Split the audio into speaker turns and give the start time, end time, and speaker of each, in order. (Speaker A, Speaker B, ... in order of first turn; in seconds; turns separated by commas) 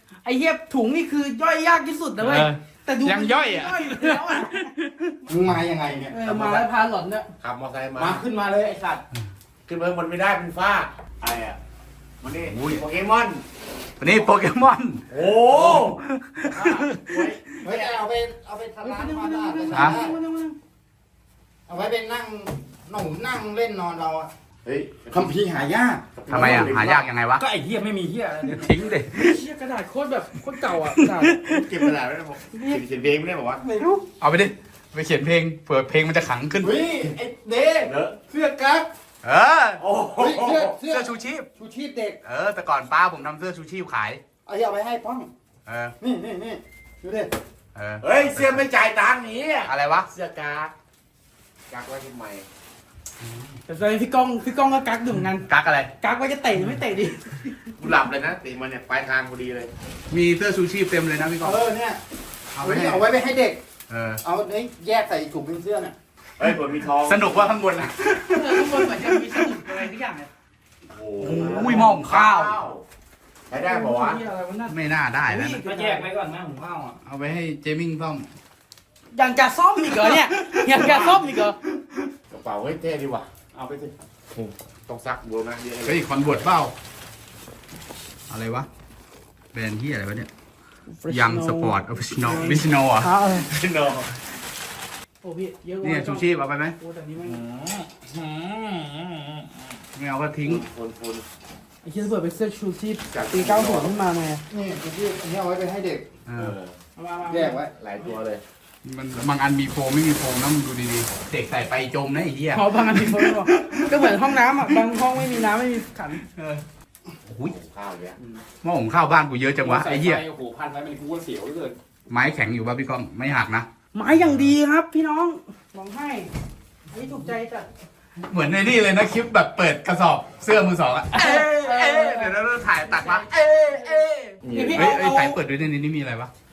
Speaker A: 0.2-4.7, Speaker B: 2.2-2.5, Speaker C: 2.3-2.6, Speaker B: 3.0-5.2, Speaker D: 5.3-6.2, Speaker A: 6.1-7.3, Speaker E: 6.2-6.7, Speaker E: 7.4-8.2, Speaker D: 8.0-9.0, Speaker E: 9.7-11.6, Speaker E: 12.2-13.4, Speaker B: 12.5-12.8, Speaker B: 14.0-17.0, Speaker E: 15.1-17.9, Speaker D: 17.6-20.1, Speaker A: 18.8-20.6, Speaker B: 19.7-20.0, Speaker D: 21.7-24.3, Speaker E: 24.6-25.2, Speaker D: 25.0-26.8, Speaker E: 26.2-27.0, Speaker B: 26.3-27.4, Speaker C: 27.4-28.7, Speaker B: 28.5-29.4, Speaker A: 29.1-31.6, Speaker B: 31.0-31.6, Speaker E: 31.4-33.6, Speaker A: 32.5-32.8, Speaker D: 33.6-34.0, Speaker B: 34.2-36.8, Speaker D: 36.6-38.9, Speaker E: 37.8-38.2, Speaker B: 39.2-39.8, Speaker E: 39.8-40.8, Speaker D: 40.1-42.2, Speaker B: 40.8-41.5, Speaker B: 42.2-44.2, Speaker D: 44.5-45.3, Speaker B: 45.6-45.9, Speaker D: 46.0-47.3, Speaker B: 47.7-48.6, Speaker E: 48.0-50.7, Speaker B: 49.6-50.1, Speaker E: 51.7-52.5, Speaker B: 53.2-53.6, Speaker A: 53.7-55.5, Speaker B: 55.4-55.9, Speaker A: 56.0-57.5, Speaker E: 57.8-59.7, Speaker B: 60.1-61.6, Speaker D: 61.4-62.0, Speaker B: 62.5-63.0, Speaker D: 62.6-63.6, Speaker B: 63.9-64.2, Speaker D: 64.2-65.9, Speaker E: 66.4-67.5, Speaker B: 67.0-69.8, Speaker A: 68.3-70.3, Speaker E: 70.9-72.8, Speaker B: 71.2-72.6, Speaker E: 73.5-74.2, Speaker A: 73.6-76.1, Speaker B: 74.7-75.6, Speaker C: 75.6-77.0, Speaker B: 77.0-78.2, Speaker A: 79.1-81.6, Speaker B: 79.9-81.2, Speaker E: 80.9-81.2, Speaker E: 82.3-83.3, Speaker C: 83.5-83.9, Speaker E: 84.3-86.5, Speaker B: 85.8-86.7, Speaker B: 88.3-88.7, Speaker B: 89.5-90.3, Speaker A: 90.9-93.5, Speaker B: 91.1-93.1, Speaker E: 93.4-94.1, Speaker A: 95.2-96.3, Speaker B: 95.8-96.8, Speaker A: 96.8-97.4, Speaker C: 97.2-99.6, Speaker B: 100.0-100.6, Speaker E: 100.4-101.2, Speaker A: 101.8-104.4, Speaker E: 103.1-103.9, Speaker D: 104.5-106.1, Speaker B: 106.2-106.5, Speaker E: 106.3-106.8, Speaker A: 107.0-107.6, Speaker D: 107.3-107.7, Speaker E: 107.6-108.4, Speaker B: 108.8-114.7, Speaker A: 112.5-116.2, Speaker B: 116.2-116.6, Speaker E: 117.3-118.1, Speaker B: 118.6-120.2, Speaker C: 119.6-121.8, Speaker B: 122.1-123.7, Speaker A: 123.9-126.3, Speaker A: 126.9-127.7, Speaker B: 128.2-136.3, Speaker A: 131.1-135.4, Speaker E: 134.4-134.9